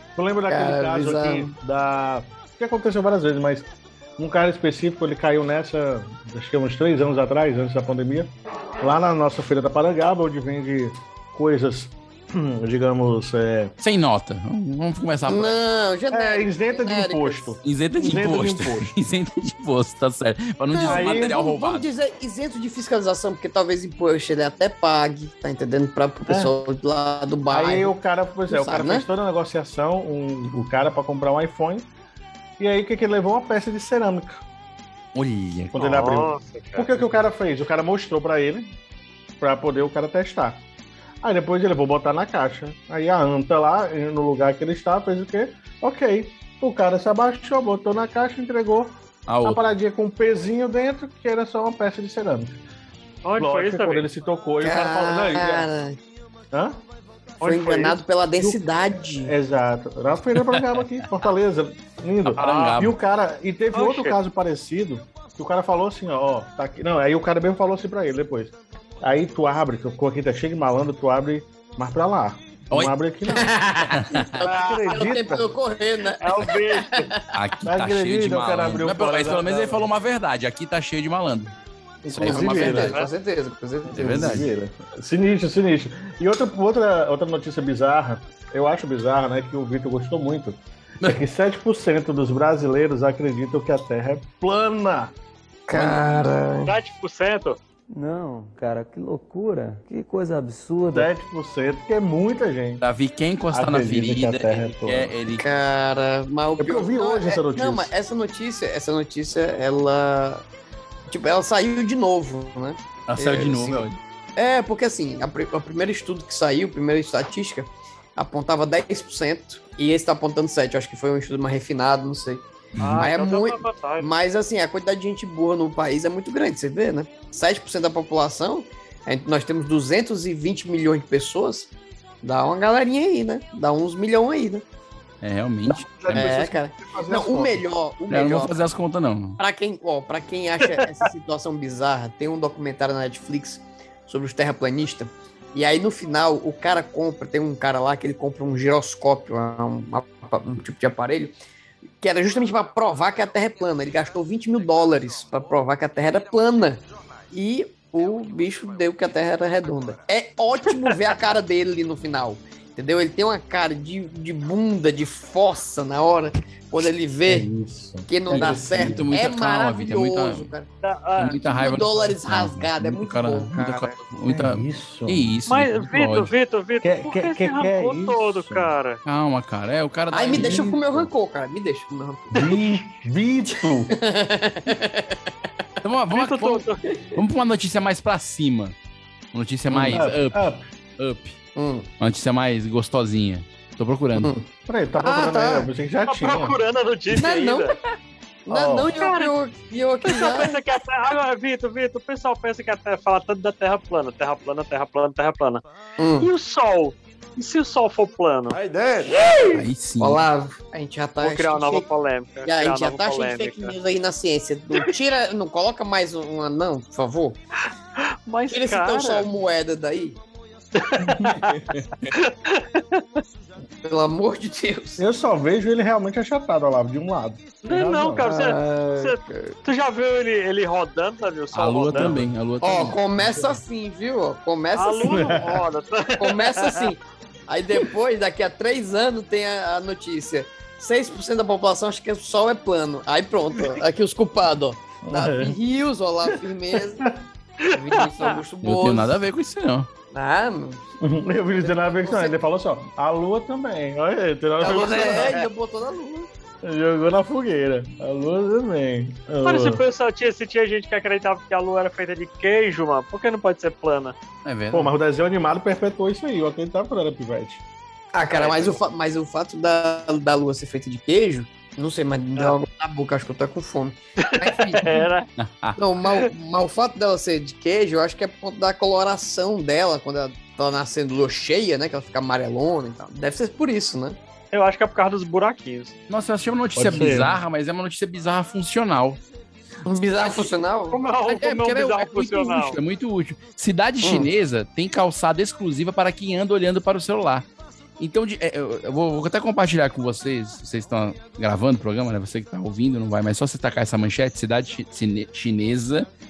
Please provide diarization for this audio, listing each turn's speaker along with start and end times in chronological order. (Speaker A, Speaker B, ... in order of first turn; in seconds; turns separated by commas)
Speaker A: 0.1-13.7, Speaker B: 0.5-1.5, Speaker C: 13.8-15.5, Speaker B: 15.3-17.5, Speaker A: 16.1-18.9, Speaker C: 17.6-21.9, Speaker B: 20.7-27.9, Speaker A: 20.8-21.4, Speaker A: 26.3-26.5, Speaker A: 27.5-31.9, Speaker B: 28.5-29.1, Speaker A: 32.6-34.4, Speaker C: 35.1-36.0, Speaker A: 35.7-38.7, Speaker D: 35.8-37.0, Speaker A: 39.4-40.6, Speaker A: 41.2-52.6, Speaker C: 49.3-49.6, Speaker D: 53.2-54.1, Speaker A: 53.4-55.7, Speaker B: 54.6-56.0, Speaker A: 56.5-56.8, Speaker D: 57.4-58.0, Speaker B: 57.4-59.3, Speaker A: 58.4-73.5, Speaker D: 62.4-62.8, Speaker C: 62.4-62.9, Speaker D: 63.7-64.2, Speaker B: 73.3-77.2, Speaker C: 73.9-74.3, Speaker D: 74.4-75.0, Speaker A: 74.4-75.5, Speaker D: 76.2-77.1, Speaker C: 77.3-81.5, Speaker A: 77.7-79.9, Speaker A: 82.0-82.9, Speaker C: 82.1-82.9, Speaker B: 82.2-84.4, Speaker D: 82.6-83.1, Speaker A: 83.9-95.1, Speaker C: 84.0-84.5, Speaker B: 95.7-96.7, Speaker C: 95.7-96.2, Speaker D: 96.7-97.6, Speaker E: 97.9-101.1, Speaker A: 100.9-102.8, Speaker C: 102.8-105.4, Speaker A: 103.5-105.1, Speaker B: 105.4-110.4, Speaker A: 106.6-107.9, Speaker B: 111.1-113.8, Speaker C: 113.1-114.0, Speaker B: 114.3-122.4, Speaker C: 122.8-123.1, Speaker D: 122.8-124.1, Speaker B: 123.0-131.7, Speaker B: 132.2-134.6, Speaker C: 135.2-136.3, Speaker A: 135.7-137.7, Speaker B: 136.1-138.6, Speaker C: 138.1-139.4, Speaker B: 139.4-151.3, Speaker B: 152.0-167.5, Speaker A: 167.2-169.1, Speaker B: 168.1-170.7, Speaker C: 168.3-170.5, Speaker D: 170.8-171.4, Speaker C: 171.2-176.3, Speaker B: 171.4-173.9, Speaker A: 174.2-175.3, Speaker D: 175.5-179.0, Speaker A: 176.8-178.7, Speaker C: 179.0-180.6, Speaker B: 180.1-182.6, Speaker A: 180.3-181.1, Speaker A: 182.3-183.9, Speaker B: 183.9-185.2, Speaker C: 185.8-188.7, Speaker D: 186.1-186.8, Speaker C: 189.3-191.4, Speaker A: 189.7-190.6, Speaker B: 191.6-191.9, Speaker C: 192.0-194.3, Speaker A: 194.5-196.6, Speaker B: 195.0-195.7, Speaker D: 196.1-197.8, Speaker B: 197.1-197.7, Speaker B: 198.5-200.6, Speaker A: 198.5-198.9, Speaker D: 198.9-199.3, Speaker D: 200.1-205.6, Speaker B: 206.0-206.3, Speaker D: 206.2-208.6, Speaker C: 209.5-210.2, Speaker B: 210.0-211.9, Speaker D: 211.2-213.7, Speaker B: 212.4-217.4, Speaker D: 218.0-219.3, Speaker B: 218.5-220.2, Speaker D: 220.8-221.5, Speaker A: 221.0-221.9, Speaker D: 222.1-223.2, Speaker B: 223.8-225.0, Speaker A: 225.0-228.3, Speaker D: 227.6-232.2, Speaker B: 228.2-229.6, Speaker C: 231.5-233.0, Speaker A: 231.9-232.2, Speaker B: 232.6-235.3, Speaker A: 233.2-233.6, Speaker D: 234.7-236.9, Speaker A: 235.1-235.6, Speaker B: 236.2-247.1, Speaker A: 245.0-245.6, Speaker B: 247.7-249.2, Speaker D: 247.9-248.3, Speaker C: 248.6-249.9, Speaker B: 250.1-250.8, Speaker A: 251.0-255.4, Speaker B: 251.6-252.3, Speaker B: 254.6-256.3, Speaker A: 256.6-259.8, Speaker D: 259.4-264.1, Speaker C: 264.4-264.9, Speaker A: 264.7-267.6, Speaker B: 268.1-274.9, Speaker D: 268.3-268.8, Speaker D: 274.2-275.3, Speaker C: 275.4-275.8, Speaker B: 275.8-284.2, Speaker D: 284.5-285.9, Speaker C: 286.1-289.2, Speaker A: 286.8-287.4, Speaker B: 289.9-291.0, Speaker D: 290.9-292.8, Speaker C: 291.2-297.4, Speaker B: 294.0-294.3, Speaker C: 298.0-306.1